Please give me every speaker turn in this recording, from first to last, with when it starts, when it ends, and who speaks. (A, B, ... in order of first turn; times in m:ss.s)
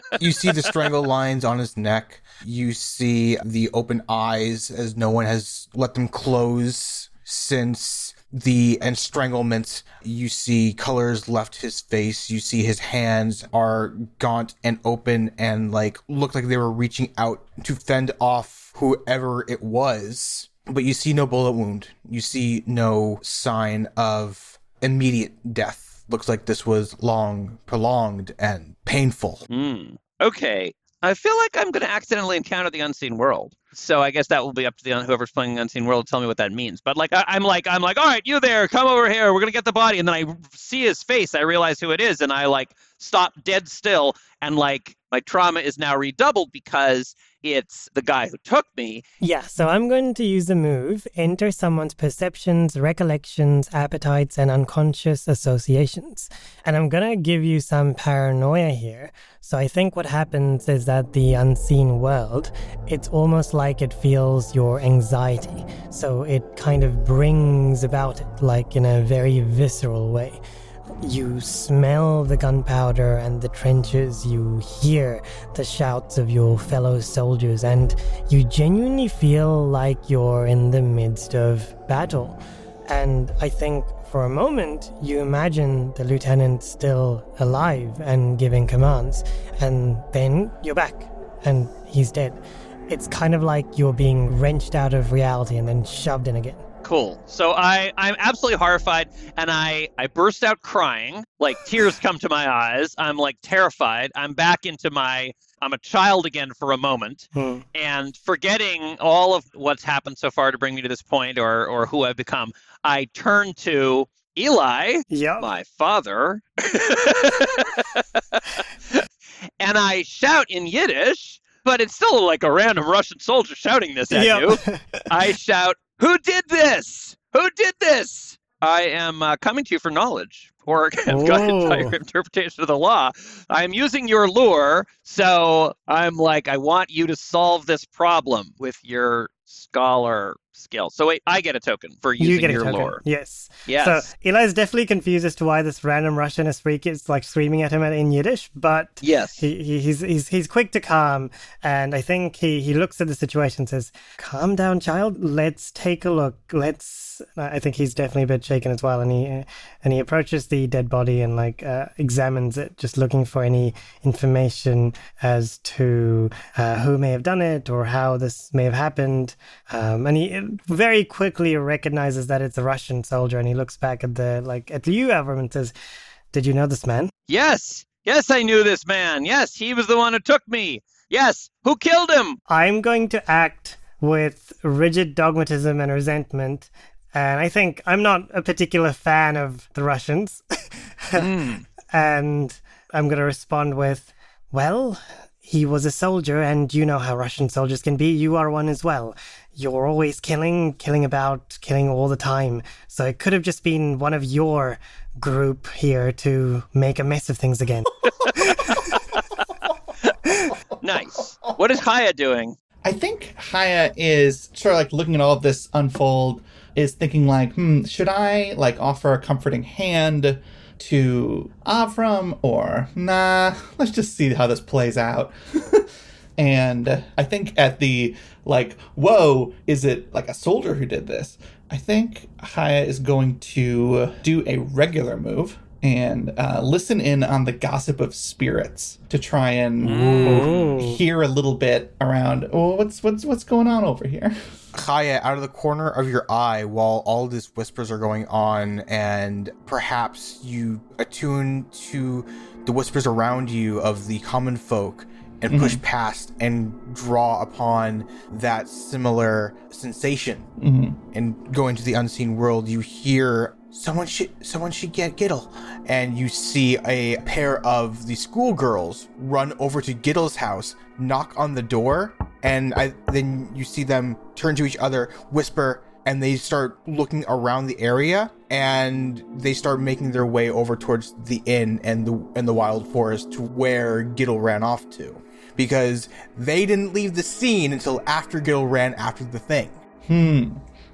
0:00.2-0:29.5 A
0:29.5-0:49.0 B
0:49.2-1:10.4 C
1:11.0-1:36.6 C
1:36.8-1:59.1 B
1:47.4-1:47.6 C
1:55.1-1:55.5 C
1:59.6-2:23.0 B
2:04.1-2:05.1 C
2:11.1-2:12.0 C
2:22.2-2:55.7 C
2:23.7-2:24.1 B
2:29.0-2:29.4 B
2:56.3-2:57.1 C
2:57.3-3:02.4 B
3:02.5-3:11.3 C
3:11.2-3:11.6 B
3:11.9-3:28.8 C
3:28.2-3:29.0 D
3:28.5-3:28.8 B
3:29.6-3:31.5 D
3:30.8-3:32.6 B
3:32.8-4:04.4 D
3:59.8-4:00.7 B
3:59.9-4:00.4 A
4:00.3-4:01.0 C
4:04.7-4:20.5 A
4:15.5-4:15.8 D
4:20.6-4:21.0 D
4:21.1-4:49.8 A
4:50.1-4:50.6 D